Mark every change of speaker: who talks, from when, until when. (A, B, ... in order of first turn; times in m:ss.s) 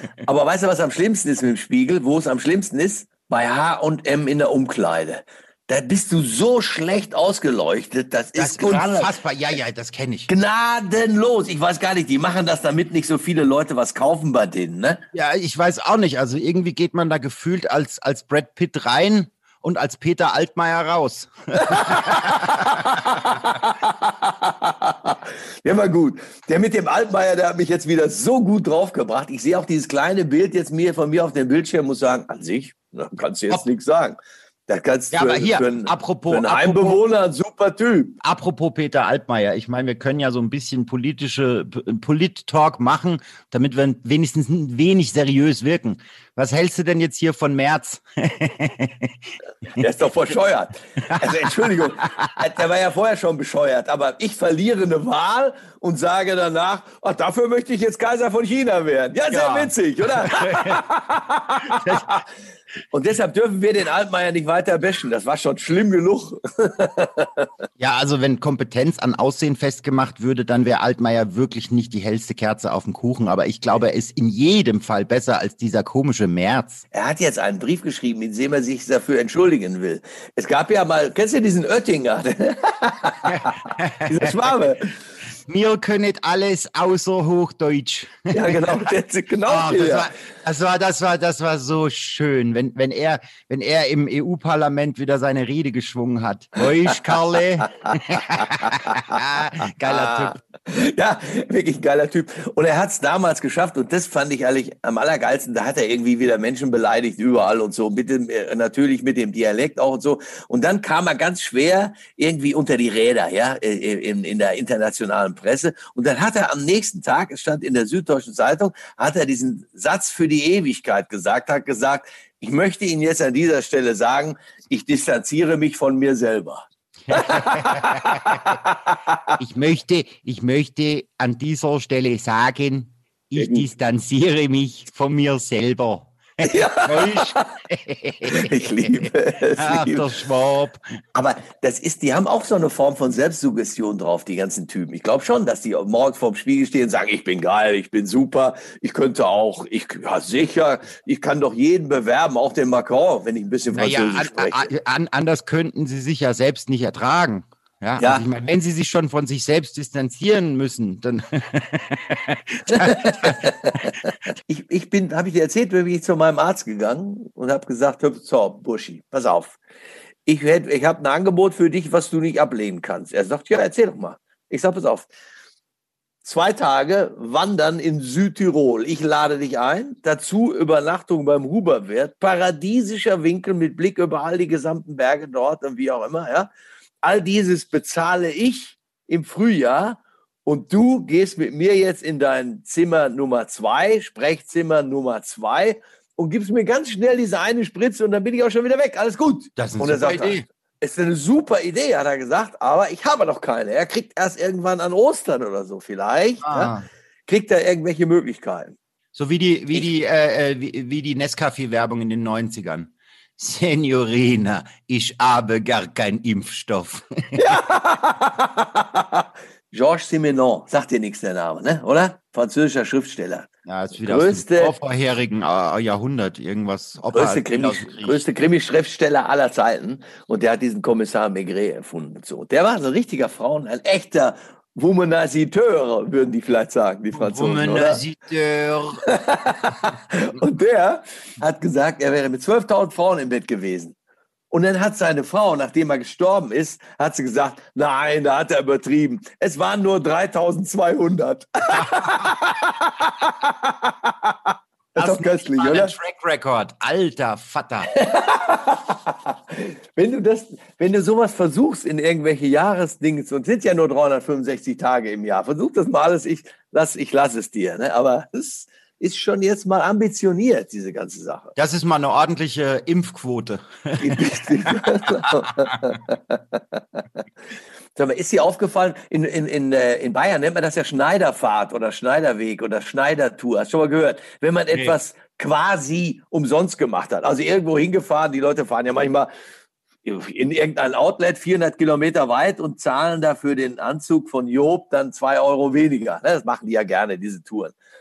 0:00.2-0:09.1 A
0:08.4-0:10.3 B
0:10.3-0:15.0 A
0:15.1-0:23.5 B
0:21.6-0:38.2 A
0:35.1-0:37.0 B
0:38.2-0:49.2 B
0:49.8-1:02.2 A
0:51.0-0:52.3 B
0:59.3-1:00.8 B
1:01.8-1:02.1 B
1:02.9-1:07.5 A
1:07.8-1:16.8 B
1:16.9-1:24.9 A
1:23.2-1:24.5 B
1:25.5-1:28.8 B
1:28.3-1:30.1 A
1:29.5-1:40.4 B
1:38.3-1:38.8 A
1:39.8-2:09.2 A
2:07.1-2:08.4 B
2:09.4-2:20.8 B
2:13.4-2:13.7 A
2:16.4-2:17.5 A
2:18.3-2:20.1 A
2:21.1-2:34.7 A
2:33.7-2:43.9 B
2:38.0-2:38.2 A
2:42.7-2:49.6 A
2:50.2-2:55.1 A
2:56.2-3:06.5 A
3:07.0-3:26.7 A
3:19.6-3:20.4 B
3:26.4-3:26.9 B
3:27.3-3:28.8 A
3:29.1-3:37.4 B
3:37.4-3:44.8 A
3:43.6-3:48.2 B
3:47.1-3:58.0 A
3:57.1-3:59.0 B
3:59.1-4:04.0 A
4:04.5-4:16.0 A
4:15.0-4:17.9 B
4:17.9-4:31.5 A
4:31.6-4:34.2 B
4:34.0-4:37.0 A
4:38.0-4:49.3 A
4:50.0-4:57.8 A